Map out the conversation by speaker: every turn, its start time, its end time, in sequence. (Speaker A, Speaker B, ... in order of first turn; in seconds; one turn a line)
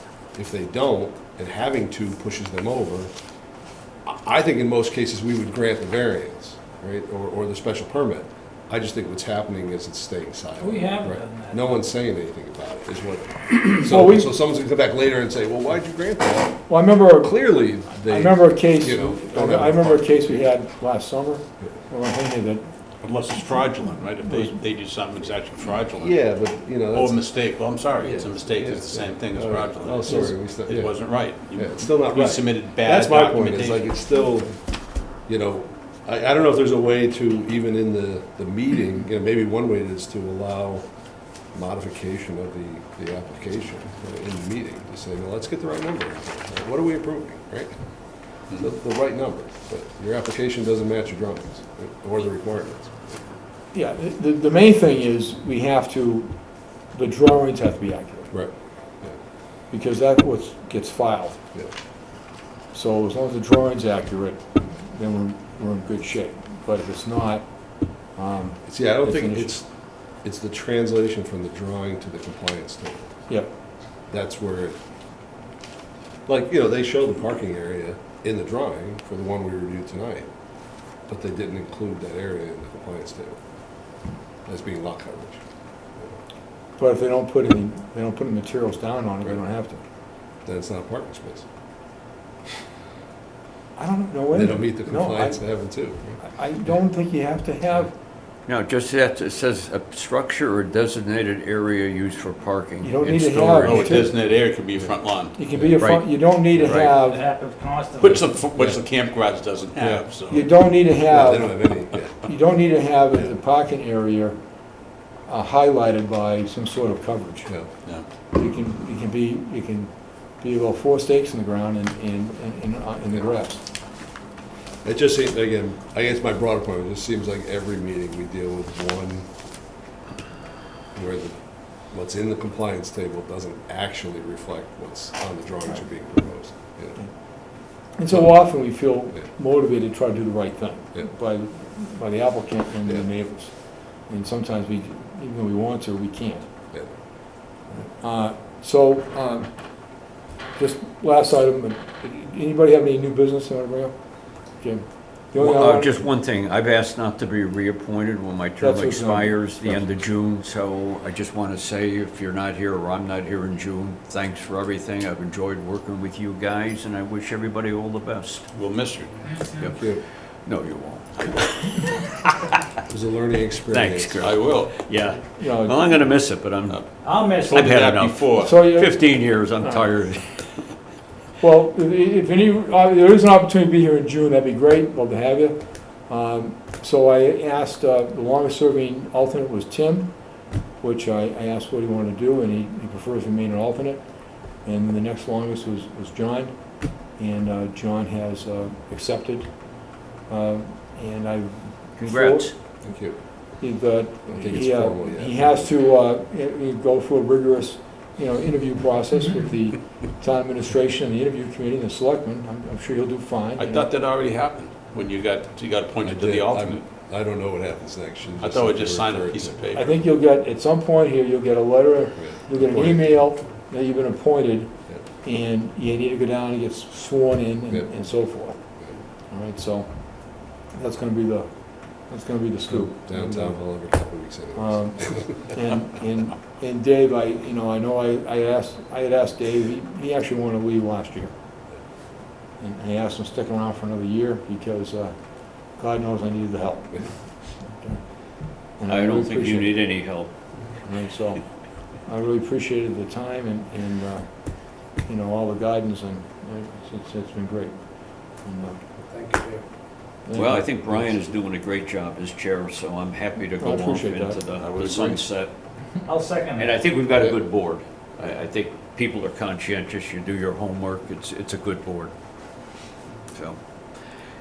Speaker A: 0.3-3.1
Speaker A: 4.0-16.7
Speaker B: 10.6-11.7
Speaker C: 13.8-14.3
Speaker C: 16.7-17.4
Speaker A: 17.2-20.4
Speaker C: 18.1-22.6
Speaker D: 23.0-26.2
Speaker A: 26.0-27.2
Speaker D: 26.9-33.9
Speaker A: 28.0-34.5
Speaker C: 30.1-30.3
Speaker A: 35.3-40.9
Speaker A: 41.5-47.7
Speaker A: 48.5-53.2
Speaker C: 53.7-56.3
Speaker C: 56.9-58.3
Speaker A: 58.3-59.1
Speaker C: 59.7-61.4
Speaker C: 62.7-67.5
Speaker C: 68.2-69.6
Speaker A: 68.7-69.7
Speaker A: 70.2-73.1
Speaker A: 74.1-74.8
Speaker A: 76.3-80.3
Speaker A: 81.1-83.4
Speaker A: 84.5-85.4
Speaker C: 86.8-89.8
Speaker A: 90.5-91.5
Speaker C: 93.8-95.4
Speaker A: 94.3-96.2
Speaker C: 96.2-97.9
Speaker E: 98.5-104.1
Speaker C: 102.8-104.1
Speaker D: 103.6-105.3
Speaker C: 105.3-107.2
Speaker E: 105.8-106.9
Speaker B: 107.0-108.3
Speaker D: 108.0-110.5
Speaker B: 109.8-110.0
Speaker C: 110.3-111.6
Speaker A: 111.1-112.3
Speaker C: 112.2-114.4
Speaker C: 115.3-117.5
Speaker C: 118.3-123.6
Speaker A: 124.8-129.2
Speaker A: 130.9-137.0
Speaker C: 137.9-146.5
Speaker C: 147.7-149.5
Speaker C: 150.6-154.0
Speaker C: 154.6-156.0
Speaker E: 155.4-168.5
Speaker C: 158.6-159.9
Speaker D: 168.5-169.3
Speaker E: 169.5-172.2
Speaker A: 169.8-170.0
Speaker D: 171.2-171.9
Speaker A: 172.9-174.3
Speaker E: 173.7-180.5
Speaker D: 174.2-174.8
Speaker C: 175.4-175.8
Speaker D: 176.7-178.6
Speaker B: 177.0-177.7
Speaker C: 178.4-179.8
Speaker C: 181.4-190.1
Speaker C: 190.8-194.1
Speaker C: 194.6-196.5
Speaker C: 197.2-199.5
Speaker C: 200.3-202.5
Speaker E: 202.0-202.5
Speaker A: 202.8-203.2
Speaker C: 203.6-213.9
Speaker A: 204.3-205.7
Speaker D: 213.6-216.8
Speaker A: 216.0-219.6
Speaker D: 218.4-220.0
Speaker C: 219.7-228.6
Speaker A: 222.2-223.0
Speaker C: 229.3-233.6
Speaker A: 232.7-235.5
Speaker C: 234.6-241.3
Speaker C: 242.6-245.1
Speaker C: 245.7-248.0
Speaker C: 248.8-249.8
Speaker E: 248.9-250.3
Speaker C: 250.8-251.4
Speaker C: 252.0-254.3
Speaker C: 255.0-257.8
Speaker C: 258.3-258.8
Speaker C: 260.2-261.2
Speaker E: 260.3-265.5
Speaker C: 263.6-264.4
Speaker D: 264.6-265.2
Speaker B: 266.0-266.8
Speaker E: 266.6-272.1
Speaker E: 273.3-273.6